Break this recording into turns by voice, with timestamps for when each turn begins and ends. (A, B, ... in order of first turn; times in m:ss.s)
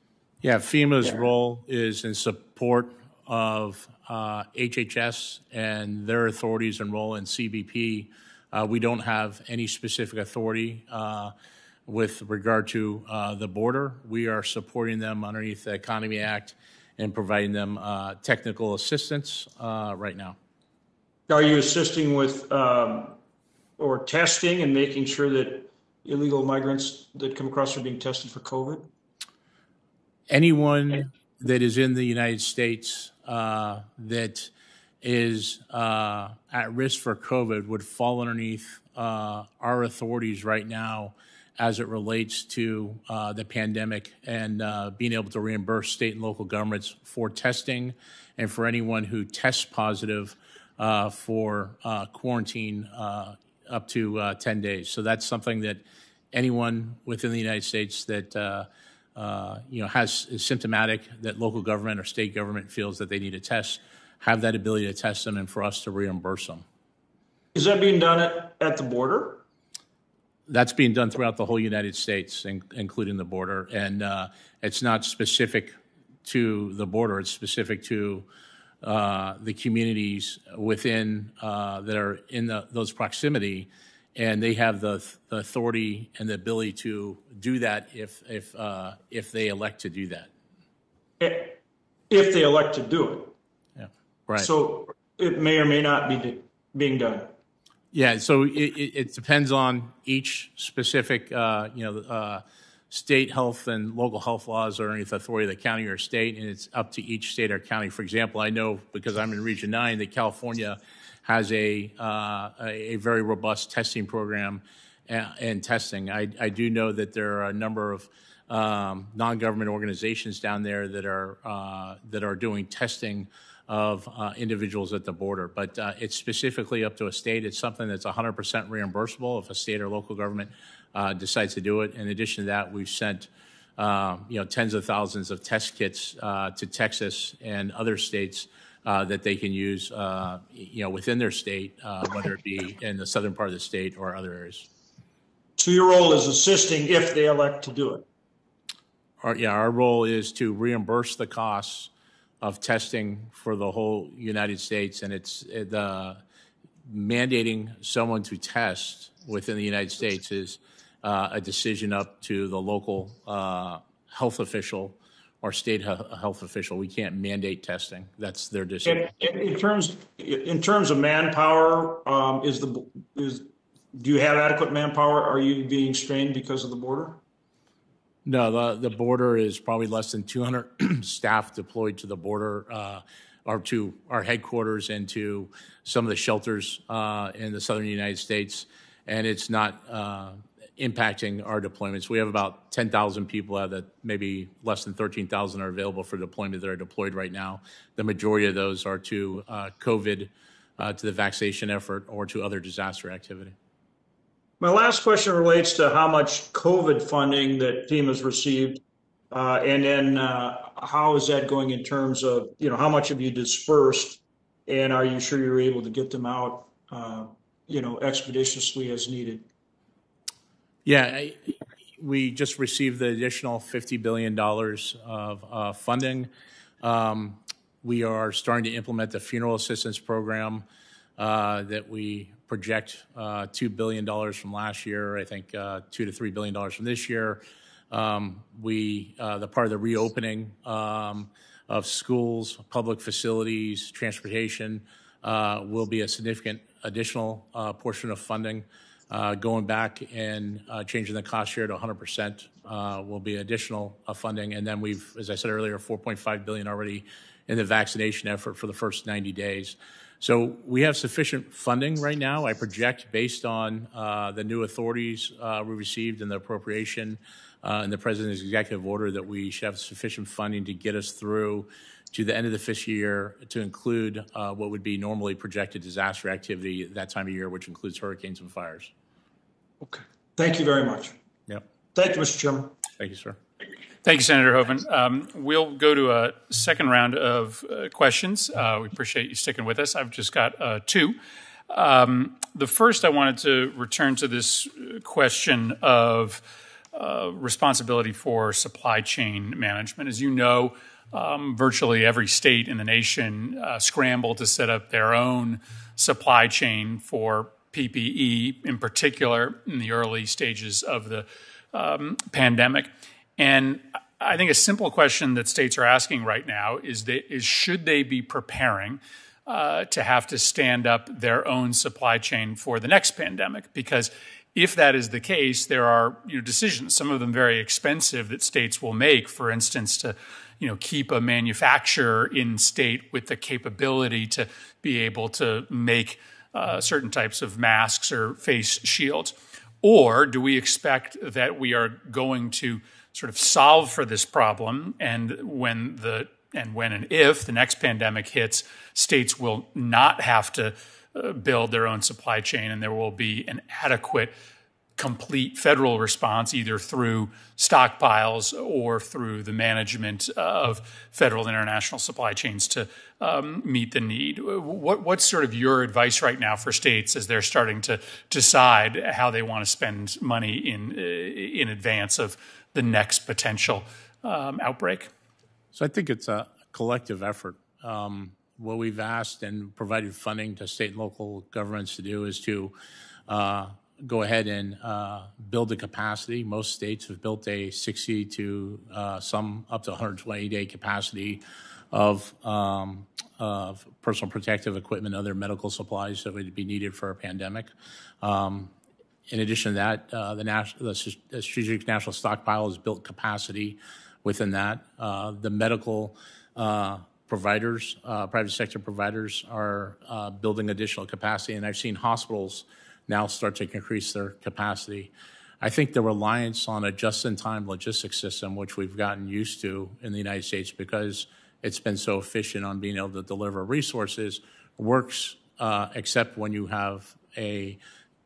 0:00.4-0:11.3 A
0:11.9-0:20.4 A
0:21.3-0:23.2 B
0:23.8-0:28.9 B
0:30.3-0:34.5 A
0:35.0-0:55.8 A
0:56.3-1:06.6 A
1:07.5-1:09.4 B
1:10.5-1:18.2 A
1:18.8-1:30.3 A
1:31.2-1:33.3 B
1:33.8-1:34.5 A
1:34.4-1:37.3 B
1:37.9-2:24.7 A
2:25.6-2:28.0 B
2:29.2-2:36.2 A
2:36.9-2:49.1 A
2:48.8-2:57.2 B
2:58.2-3:23.5 A
3:24.6-3:39.4 B
3:40.8-3:46.3 A
3:46.8-3:50.6 A
3:51.2-4:38.9 A
4:39.8-4:41.1 B
4:41.9-4:42.7 B
4:43.0-4:43.4 A
4:44.0-4:51.2 C
4:51.7-5:54.3 C
5:55.0-6:15.1 C
6:15.7-6:22.7 A
6:23.3-6:37.7 A
6:38.2-6:38.7 A
6:39.3-7:07.8 A